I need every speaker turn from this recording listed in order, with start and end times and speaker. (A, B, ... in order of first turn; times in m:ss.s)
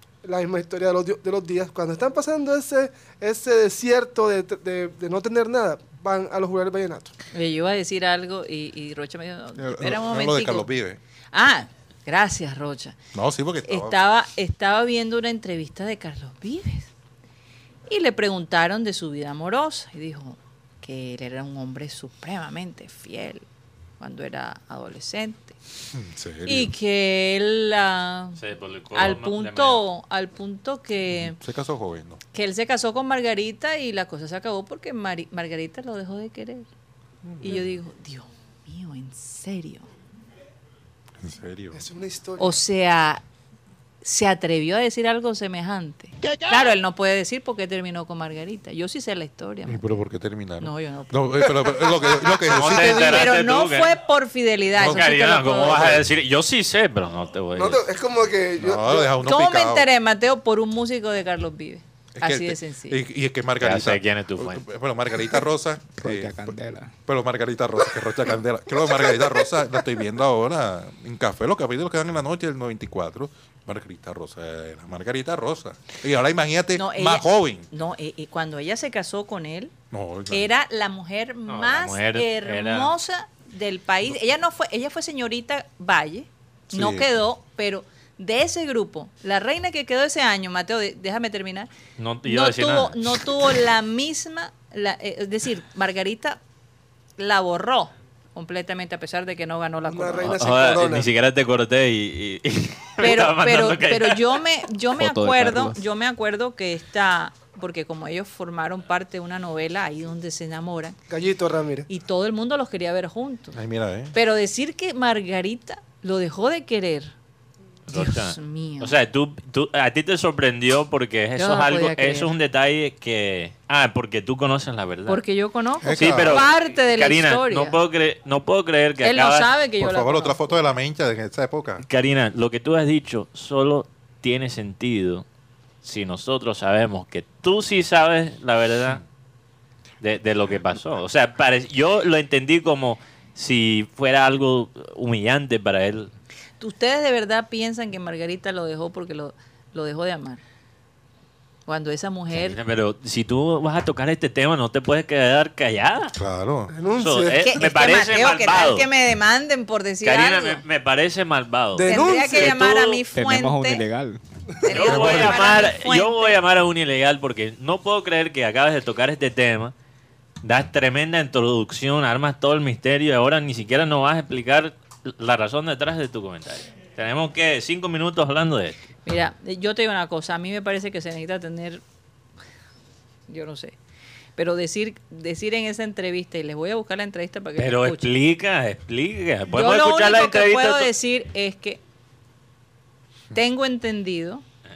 0:00.2-0:07.1 A
0:07.3-0:10.7 B
0:09.6-0:11.0 C
0:11.3-0:13.0 B
0:13.1-0:14.0 C
0:13.6-0:16.9 B
0:17.9-0:23.4 B
0:24.0-0:25.6 B
0:25.9-0:26.7 C
0:26.5-0:28.4 B
0:28.4-0:29.8 D
0:28.9-0:31.4 B
0:31.1-0:32.2 C
0:32.3-0:36.7 B
0:37.3-0:37.6 C
0:37.4-0:39.9 B
0:41.2-0:41.8 C
0:41.7-0:42.6 A
0:42.4-0:43.2 B
0:44.0-0:49.8 B
0:49.7-0:53.4 C
0:50.6-0:51.5 B
0:52.5-0:54.0 D
0:52.7-0:56.0 B
0:54.8-0:56.0 C
0:54.8-0:57.8 D
0:57.6-0:59.2 A
0:58.6-0:59.9 C
0:59.2-1:03.0 B
1:02.2-1:17.7 C
1:03.6-1:04.7 D
1:06.0-1:06.9 E
1:16.8-1:19.7 B
1:19.9-1:20.5 C
1:20.3-1:31.7 B
1:21.5-1:23.0 D
1:26.7-1:27.1 C
1:32.0-1:33.2 D
1:32.2-1:36.4 B
1:37.2-1:40.4 B
1:39.9-1:41.1 A
1:40.3-1:44.4 D
1:43.0-1:51.0 B
1:45.0-1:45.8 E
1:51.1-1:51.9 A
1:51.9-1:53.6 B
1:53.5-1:54.2 C
1:54.1-1:57.1 B
1:57.9-2:05.2 D
1:57.9-1:59.0 B
2:01.4-2:02.3 B
2:05.1-2:07.8 B
2:05.8-2:06.5 C
2:05.9-2:09.5 D
2:09.0-2:10.6 B
2:09.8-2:11.8 C
2:11.8-2:15.2 D
2:15.8-2:19.0 D
2:20.0-2:26.1 D
2:26.6-2:30.4 B
2:31.7-2:32.6 B
2:32.3-2:36.2 D
2:36.2-2:36.7 C
2:36.7-2:37.5 A
2:37.0-2:38.9 D
2:37.4-2:40.6 B
2:40.0-2:43.0 D
2:41.8-2:42.6 A
2:41.9-2:43.8 B
2:43.1-2:44.2 E
2:44.6-2:46.4 B
2:44.7-2:49.7 D
2:44.9-2:45.3 C
2:50.4-2:58.9 D
2:59.1-3:01.8 B
3:03.3-3:03.8 B
3:04.4-3:08.1 B
3:07.6-3:10.9 D
3:09.5-3:11.8 B
3:13.3-3:14.4 B